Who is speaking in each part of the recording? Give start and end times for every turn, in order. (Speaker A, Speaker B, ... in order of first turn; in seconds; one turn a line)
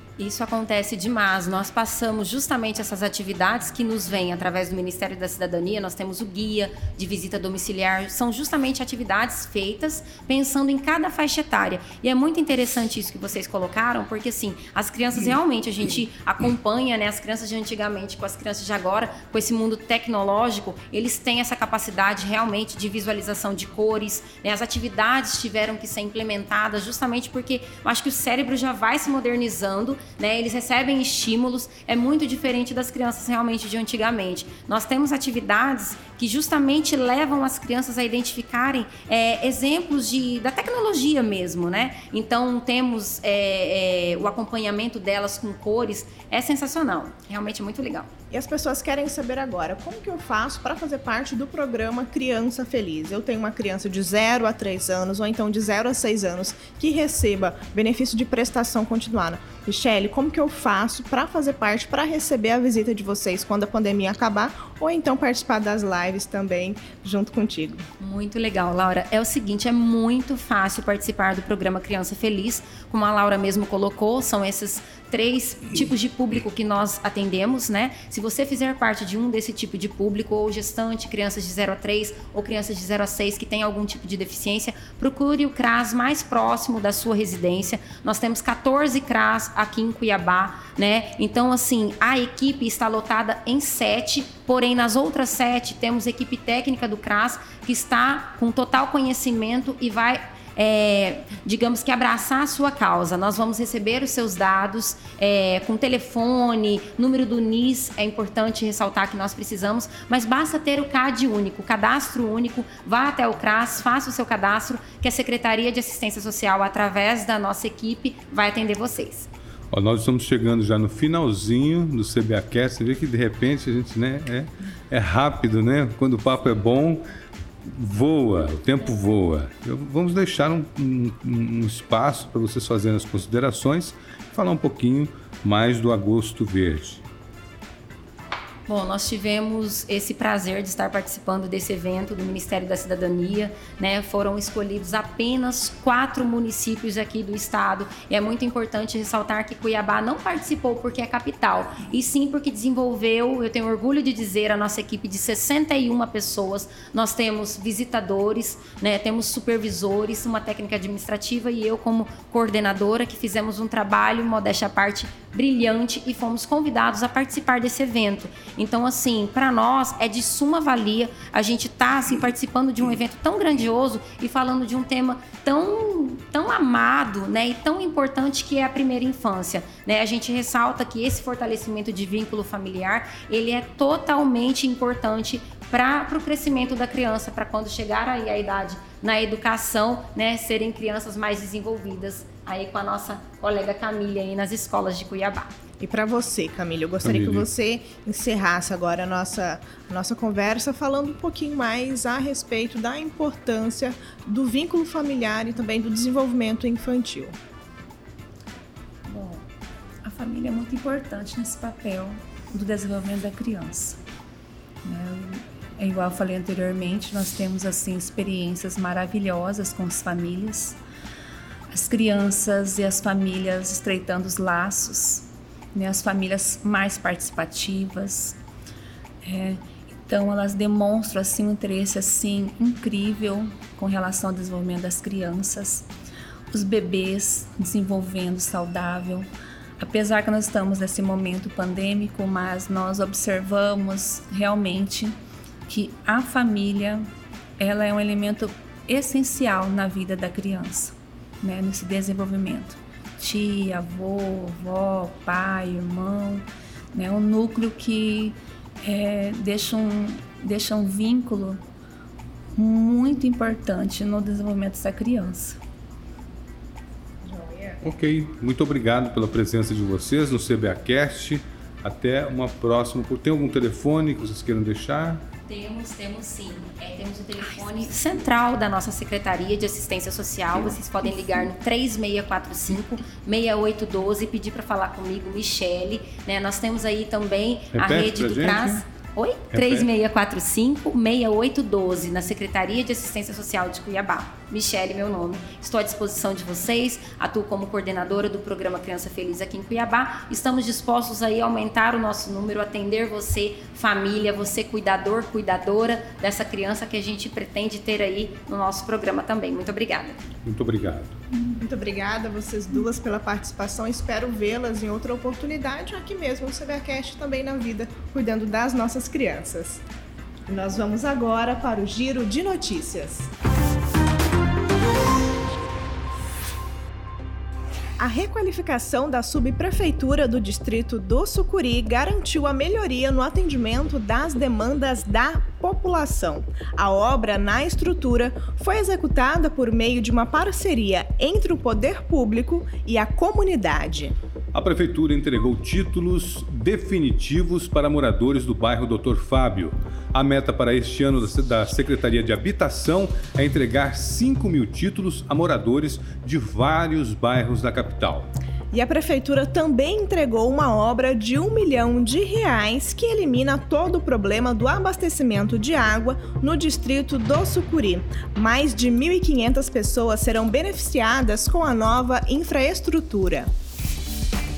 Speaker A: 0.2-48.1
Speaker B: 48.3-67.8
Speaker A: 68.0-119.3
Speaker C: 119.7-127.0
Speaker C: 127.6-137.0
Speaker A: 138.7-195.5
Speaker B: 195.8-207.3
Speaker C: 197.0-197.5
Speaker D: 209.1-209.4
Speaker D: 210.0-214.0
Speaker D: 214.8-220.8
Speaker D: 221.7-228.4
Speaker D: 229.2-235.9
Speaker D: 236.5-239.3
Speaker D: 239.8-245.2
Speaker D: 245.7-247.1
Speaker D: 247.6-261.6
Speaker D: 262.6-265.6
Speaker B: 267.2-267.8
Speaker C: 267.8-275.2
Speaker A: 275.5-310.2
Speaker C: 287.7-288.8
Speaker C: 289.5-289.9
Speaker C: 310.4-311.2
Speaker B: 311.6-319.8
Speaker B: 320.5-323.3
Speaker B: 328.0-344.1
Speaker C: 344.5-358.3
Speaker B: 358.7-373.5